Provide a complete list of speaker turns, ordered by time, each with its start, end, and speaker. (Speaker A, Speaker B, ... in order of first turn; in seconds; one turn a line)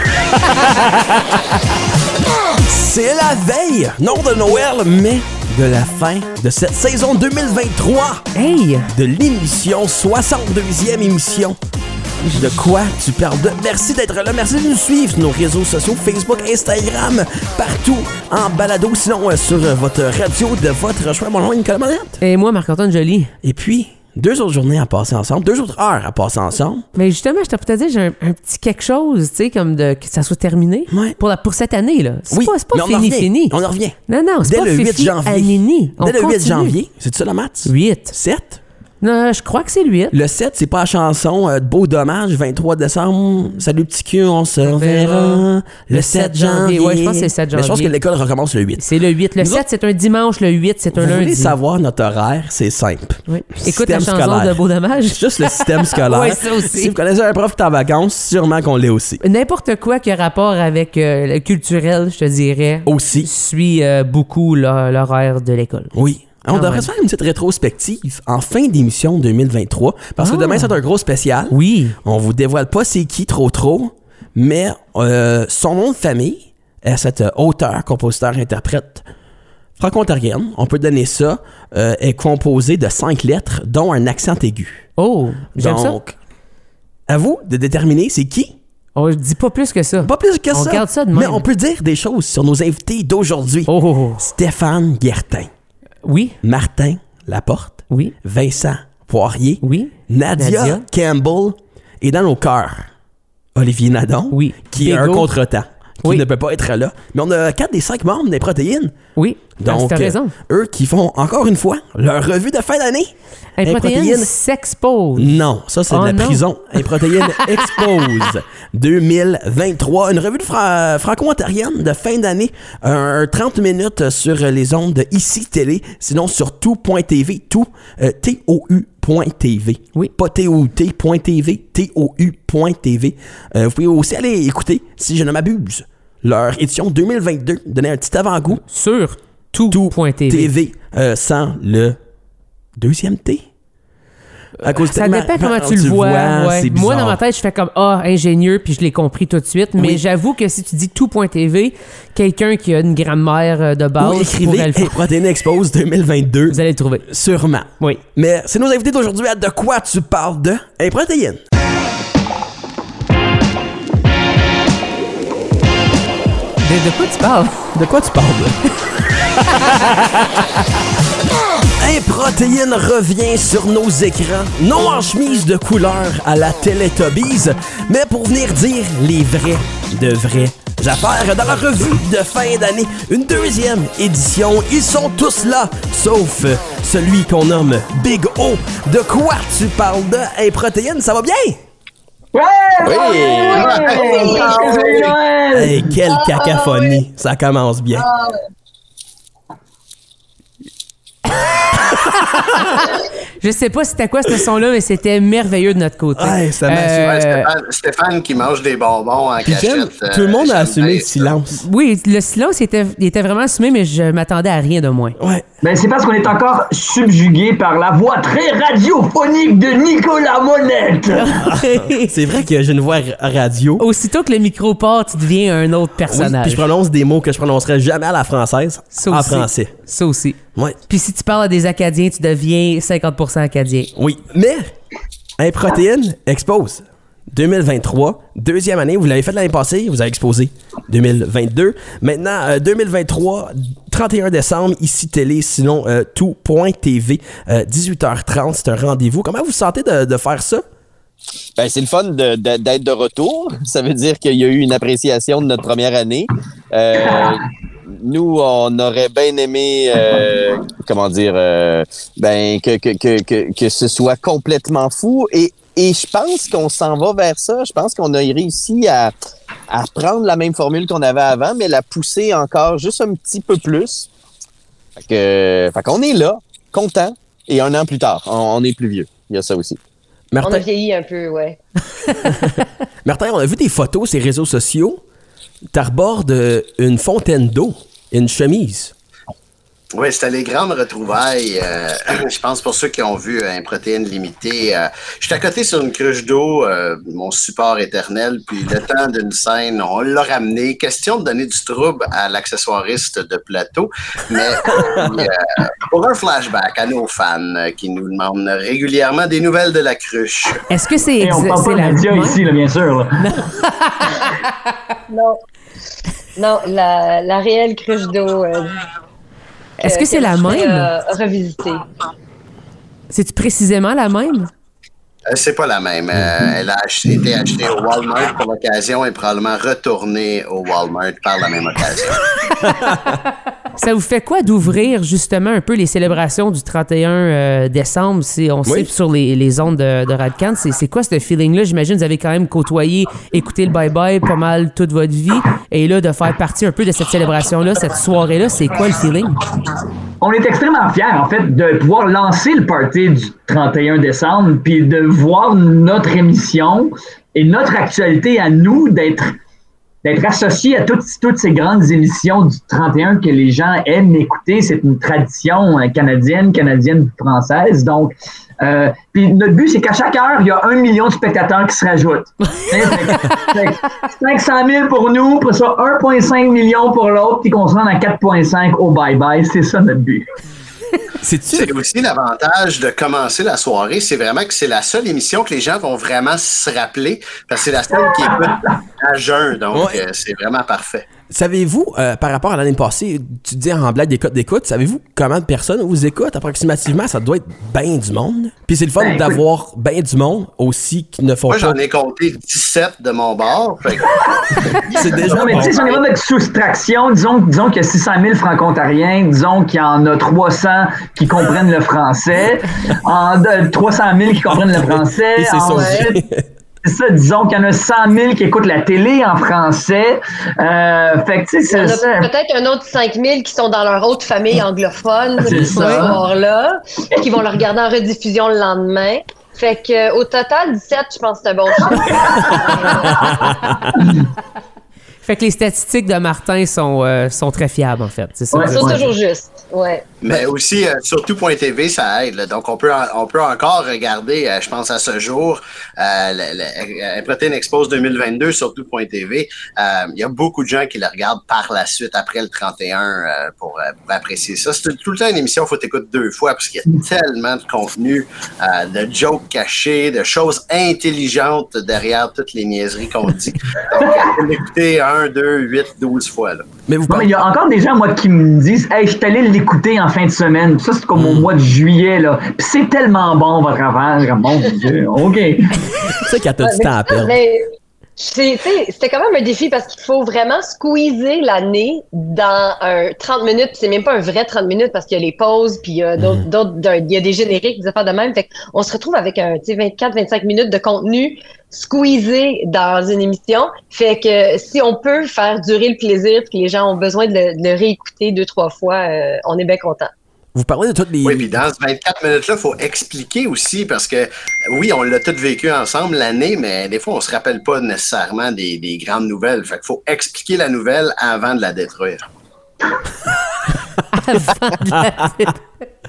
Speaker A: 0.4-0.8
Speaker B: 2.5-8.2
Speaker A: 8.3-8.9
Speaker B: 8.9-11.6
Speaker B: 12.2-22.2
Speaker A: 22.2-23.3
Speaker B: 23.4-26.9
Speaker A: 27.0-36.8
Speaker B: 30.9-31.2
Speaker B: 32.3-38.6
Speaker A: 37.6-38.1
Speaker A: 39.0-40.1
Speaker B: 40.1-48.9
Speaker A: 44.7-47.9
Speaker A: 48.8-51.5
Speaker B: 50.9-59.2
Speaker A: 53.3-56.9
Speaker A: 59.2-65.9
Speaker B: 62.9-63.3
Speaker B: 65.9-79.1
Speaker A: 66.5-66.9
Speaker A: 70.2-70.7
Speaker A: 71.5-72.0
Speaker B: 79.8-84.9
Speaker A: 85.0-86.0
Speaker B: 85.6-86.2
Speaker B: 87.1-88.5
Speaker A: 89.0-91.4
Speaker B: 90.0-95.5
Speaker A: 93.7-94.2
Speaker A: 96.0-96.4
Speaker B: 96.4-102.9
Speaker A: 97.9-98.2
Speaker A: 99.6-100.8
Speaker B: 103.5-109.0
Speaker A: 104.3-105.3
Speaker A: 109.2-110.3
Speaker B: 109.6-113.1
Speaker A: 113.6-115.3
Speaker B: 113.6-114.3
Speaker B: 115.2-138.6
Speaker A: 115.9-116.4
Speaker A: 117.3-117.8
Speaker A: 138.6-140.5
Speaker B: 139.7-142.0
Speaker B: 142.8-143.5
Speaker B: 144.6-147.2
Speaker A: 144.7-154.9
Speaker B: 149.8-150.0
Speaker B: 154.0-161.4
Speaker A: 156.5-157.1
Speaker A: 166.6-167.7
Speaker B: 167.7-170.4
Speaker B: 171.6-191.6
Speaker C: 192.3-195.9
Speaker D: 192.8-193.9
Speaker E: 193.0-195.1
Speaker F: 193.6-195.0
Speaker B: 195.5-198.1
Speaker E: 196.1-197.0
Speaker E: 198.0-198.3
Speaker A: 202.7-207.5
Speaker B: 206.2-207.2
Speaker F: 207.1-211.4
Speaker B: 209.4-211.7
Speaker A: 211.6-215.2
Speaker B: 215.2-215.4
Speaker C: 215.6-221.4
Speaker A: 221.3-222.1
Speaker B: 221.4-223.8
Speaker A: 223.8-226.6
Speaker B: 226.1-229.8
Speaker A: 228.9-233.9
Speaker B: 233.9-234.7
Speaker B: 235.4-250.6
Speaker D: 251.6-269.1
Speaker D: 269.7-274.1
Speaker D: 275.0-279.8
Speaker B: 280.3-280.6
Speaker E: 280.4-281.6
Speaker B: 282.2-285.0
Speaker B: 285.7-288.9
Speaker F: 289.9-310.7
Speaker A: 310.7-312.4
Speaker C: 311.2-313.3
Speaker A: 313.2-314.5
Speaker E: 315.1-315.4
Speaker E: 316.4-318.8
Speaker A: 319.8-320.9
Speaker E: 319.8-321.9
Speaker A: 323.1-324.5
Speaker F: 325.3-332.4
Speaker A: 333.8-349.5
Speaker B: 338.6-338.9
Speaker C: 350.2-359.4
Speaker C: 360.0-380.3
Speaker B: 381.2-381.7
Speaker F: 381.5-391.1
Speaker B: 389.7-390.0
Speaker B: 391.3-401.8
Speaker C: 399.0-399.4
Speaker F: 401.5-406.0
Speaker B: 404.7-405.9
Speaker C: 405.2-416.2
Speaker B: 414.6-416.5
Speaker E: 415.7-416.1
Speaker C: 416.8-422.3
Speaker E: 421.7-433.3
Speaker C: 425.5-426.2
Speaker A: 425.6-426.1
Speaker C: 431.9-433.0
Speaker B: 433.1-434.0
Speaker A: 435.2-439.1
Speaker C: 438.5-439.1
Speaker E: 438.6-440.1
Speaker F: 440.2-466.7
Speaker C: 464.0-464.3
Speaker B: 466.9-467.3
Speaker C: 467.1-475.8
Speaker B: 471.2-471.5
Speaker B: 475.9-477.4
Speaker E: 476.6-500.1
Speaker B: 486.2-486.4
Speaker B: 500.6-501.5
Speaker F: 501.2-512.3
Speaker A: 514.1-515.6